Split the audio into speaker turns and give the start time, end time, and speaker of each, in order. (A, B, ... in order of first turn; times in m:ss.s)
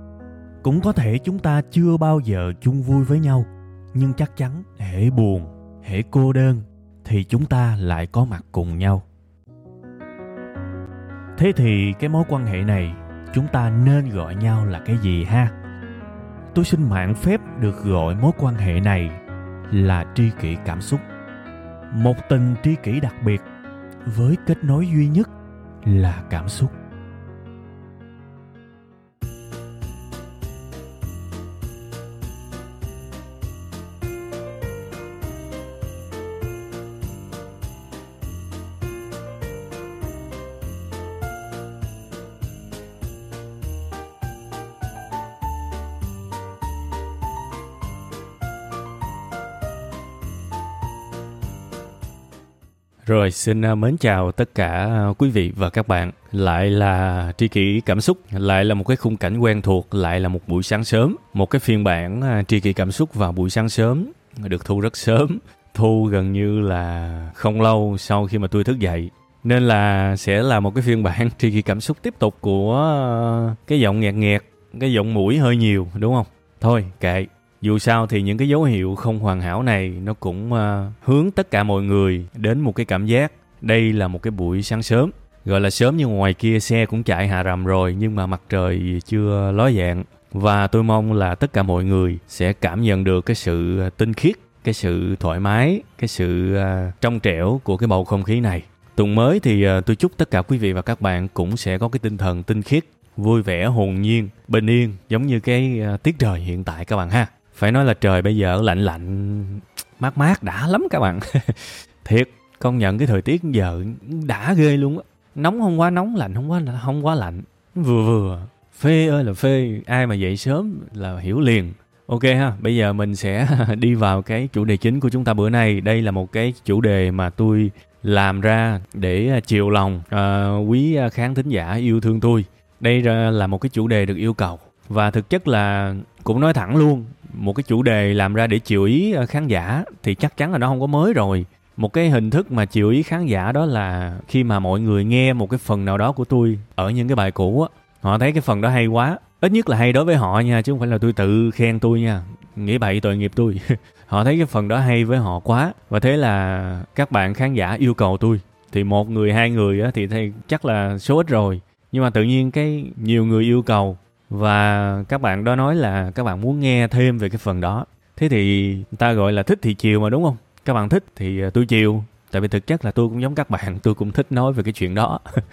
0:00.6-0:09.0 A
0:11.4-0:15.5 A
0:16.5-0:21.0 A
0:21.9-0:23.4 A
0:24.1-0:25.3 A
0:25.8-0:26.7 A
0:53.0-2:55.2 A